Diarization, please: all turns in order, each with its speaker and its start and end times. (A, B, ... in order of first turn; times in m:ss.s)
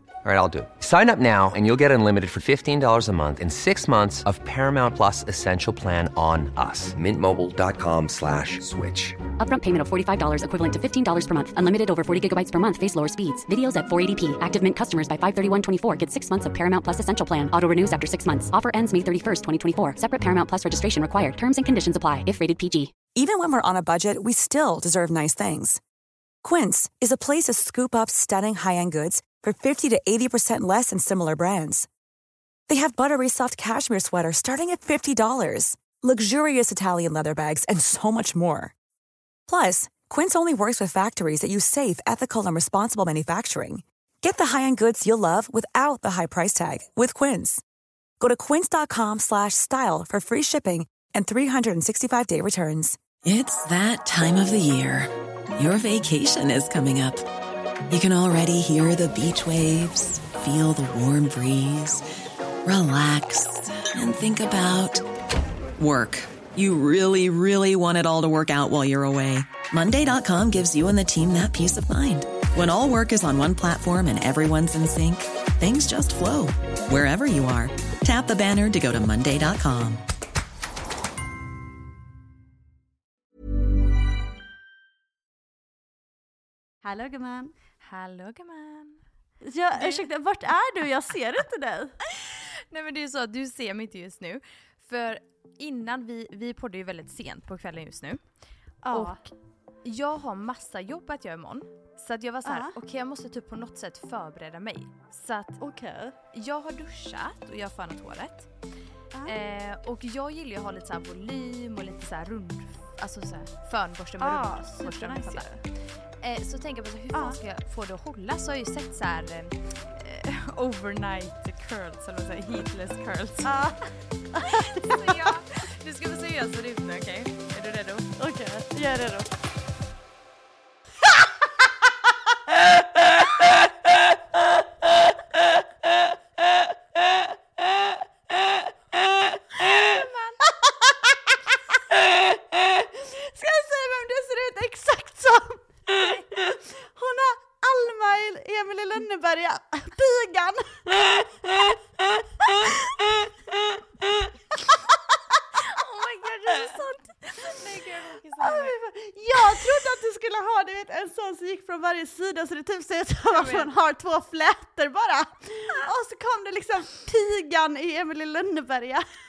0:00.2-0:09.2 A
0:09.4-0:22.9 B
0:23.2-0:25.8 C
0:26.4-0:31.9 C
0:32.7-0:38.7 C
0:39.5-0:47.6 C
0:48.2-0:53.0 C
0:53.2-0:57.2 D
0:57.9-1:02.0 D
1:02.6-1:05.0 D
1:05.8-1:20.0 D
1:26.8-1:27.6 E
1:27.8-1:29.0 F
1:29.4-1:32.0 E
1:29.8-1:30.0 F
1:32.1-1:38.2 F
1:38.8-1:39.2 E
1:38.9-1:39.3 F
1:39.8-1:45.6 F
1:42.4-1:42.7 E
1:45.6-1:46.2 E
1:46.3-1:48.5 F
1:49.3-2:03.5 F
1:54.2-1:55.6 E
1:57.1-1:57.4 E
2:03.4-2:05.3 E
2:04.4-2:08.2 F
2:08.2-2:09.3 E
2:19.7-2:20.9 E
2:22.5-2:31.7 E
2:32.4-2:33.1 E
2:35.6-2:37.6 E
2:37.4-2:38.8 F
2:38.4-2:49.1 E
2:39.4-2:39.6 F
2:43.3-2:43.7 F